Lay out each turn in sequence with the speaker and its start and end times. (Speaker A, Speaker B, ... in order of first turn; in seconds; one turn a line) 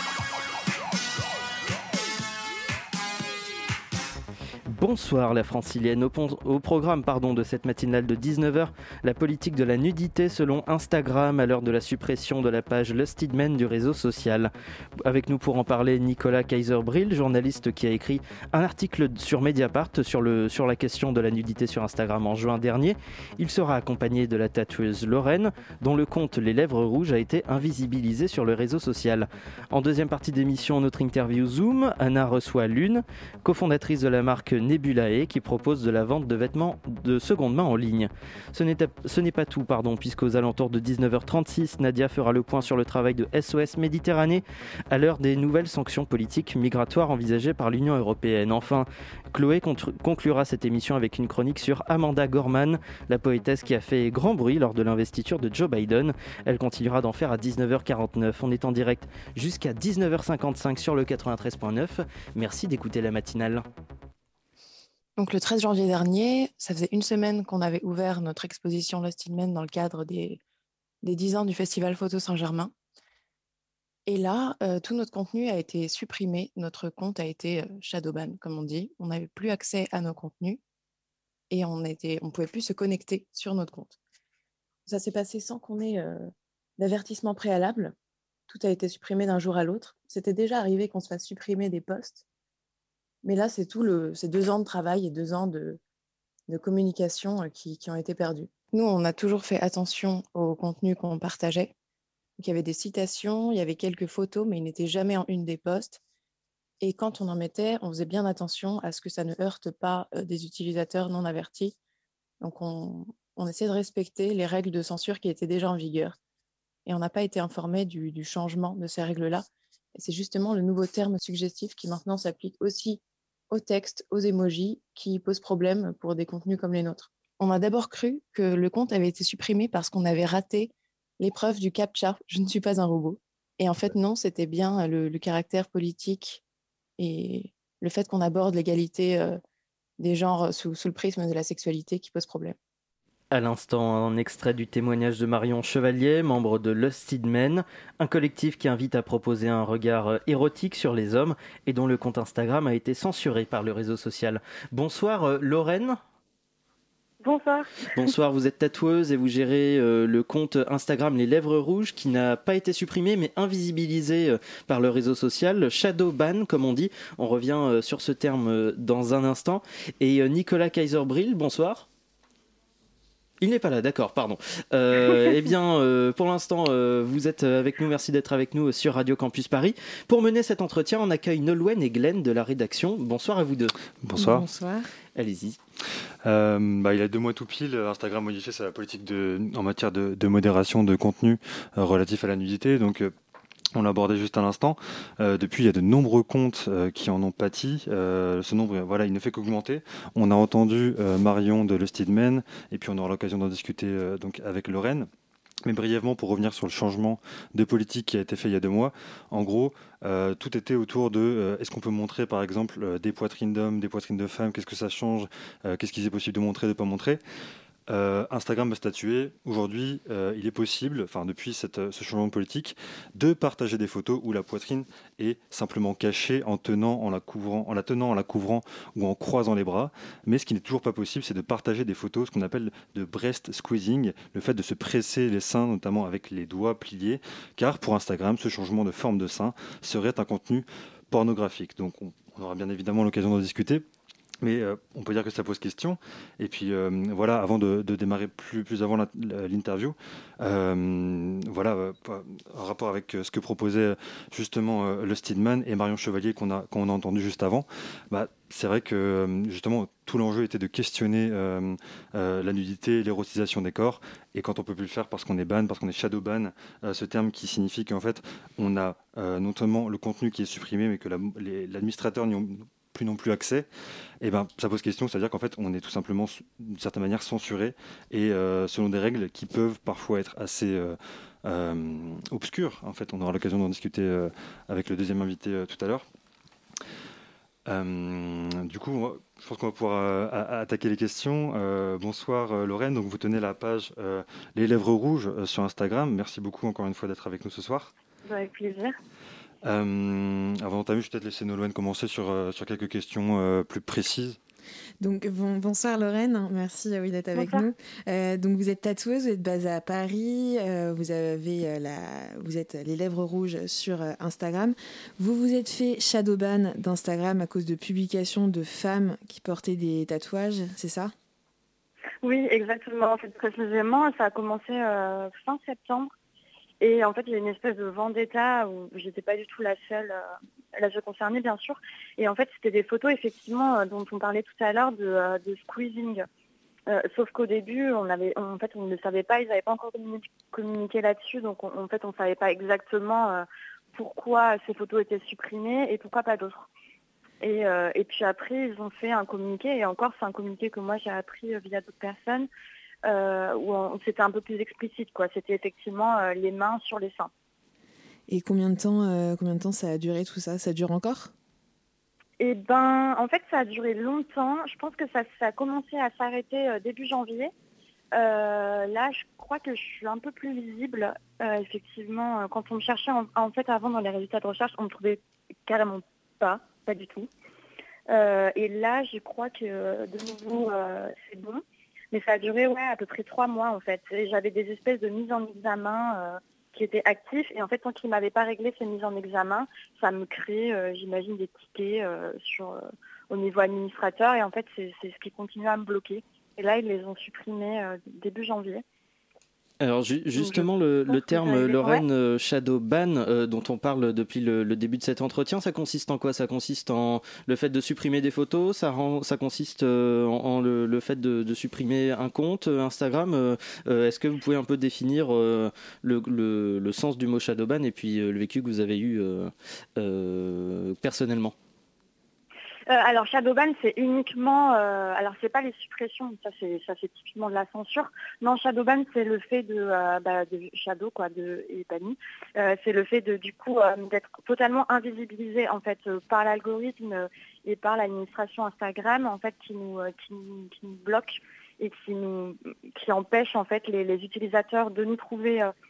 Speaker A: 4.7-63.6
Speaker B: 65.2-70.4
Speaker B: 71.0-72.7
Speaker B: 74.1-80.6
Speaker B: 81.5-84.0
Speaker B: 84.8-87.9
Speaker B: 88.5-92.2
Speaker B: 93.2-95.8
Speaker B: 96.5-101.7
Speaker B: 102.4-106.0
Speaker B: 106.8-111.7
Speaker B: 112.4-116.2
Speaker B: 116.8-136.4
Speaker B: 137.0-139.4
Speaker B: 140.0-142.6
Speaker A: 143.3-156.0
Speaker C: 157.2-157.7
Speaker A: 157.9-171.8
Speaker A: 173.4-183.8
Speaker D: 184.0-184.4
Speaker E: 184.2-184.9
Speaker A: 185.2-185.6
Speaker D: 186.2-193.1
Speaker D: 193.7-205.1
Speaker D: 205.6-217.2
Speaker D: 217.9-243.8
Speaker D: 244.4-273.7
Speaker D: 274.2-286.1
Speaker D: 287.6-297.9
Speaker C: 298.2-298.9
Speaker D: 299.6-304.4
Speaker E: 305.0-321.1
Speaker C: 307.3-307.6
Speaker C: 322.2-326.1
Speaker C: 326.8-330.2
Speaker C: 330.8-336.2
Speaker C: 336.9-346.7
Speaker C: 347.4-352.5
Speaker C: 353.1-357.3
Speaker E: 358.3-361.3
Speaker C: 362.4-367.5
Speaker C: 368.1-377.3
Speaker C: 378.1-398.8
Speaker A: 399.8-421.5
Speaker C: 400.4-402.0
Speaker C: 422.9-445.7